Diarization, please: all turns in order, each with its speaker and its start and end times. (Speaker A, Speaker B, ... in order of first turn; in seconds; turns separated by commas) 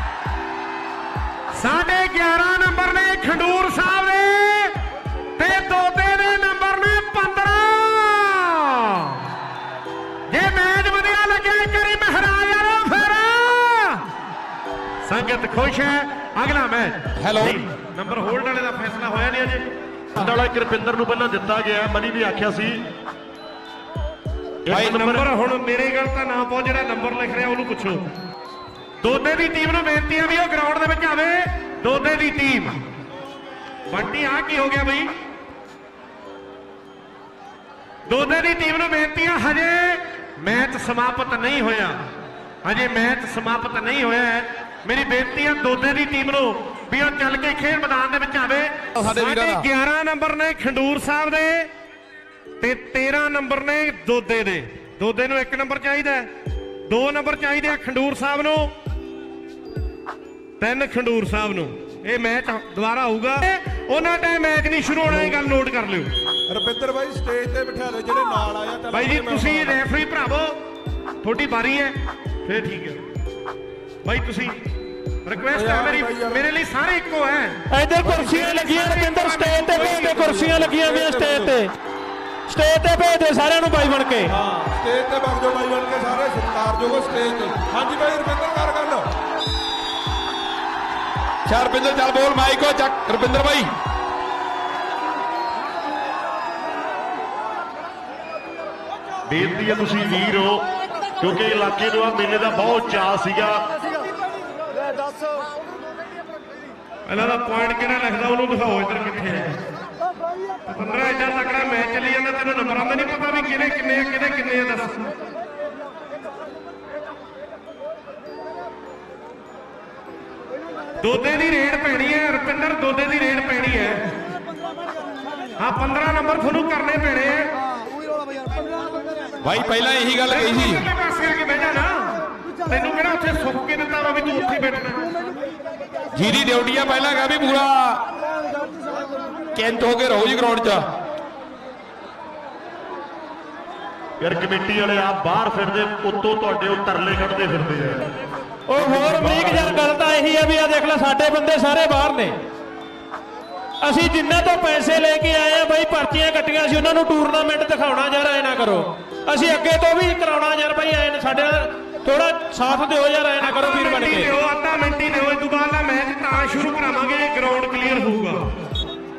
Speaker A: 1.6-4.7, Speaker A: 5.4-9.2, Speaker A: 10.3-14.0, Speaker A: 15.1-19.7, Speaker B: 17.2-17.6, Speaker C: 20.2-22.9, Speaker C: 24.7-25.2, Speaker B: 24.7-25.0, Speaker A: 24.8-28.1, Speaker A: 29.0-32.8, Speaker A: 33.9-35.1, Speaker A: 38.1-42.0, Speaker A: 42.6-51.7, Speaker B: 49.0-49.6, Speaker A: 52.6-56.3, Speaker A: 56.9-58.7, Speaker A: 60.6-66.1, Speaker D: 66.5-69.8, Speaker A: 68.9-70.5, Speaker A: 71.2-73.0, Speaker A: 74.0-74.6, Speaker A: 75.2-80.2, Speaker D: 75.5-76.4, Speaker E: 77.7-81.7, Speaker D: 79.7-81.6, Speaker E: 82.5-84.3, Speaker D: 84.3-89.1, Speaker B: 91.5-93.7, Speaker C: 99.3-100.6, Speaker C: 101.2-103.6, Speaker A: 107.1-109.6, Speaker A: 110.7-115.1, Speaker A: 121.0-124.0, Speaker A: 125.6-127.5, Speaker B: 129.4-130.8, Speaker A: 130.3-135.0, Speaker B: 136.2-138.0, Speaker B: 139.6-140.9, Speaker C: 144.2-148.1, Speaker E: 148.7-152.4, Speaker C: 148.8-149.8, Speaker E: 153.8-164.3, Speaker A: 163.4-168.5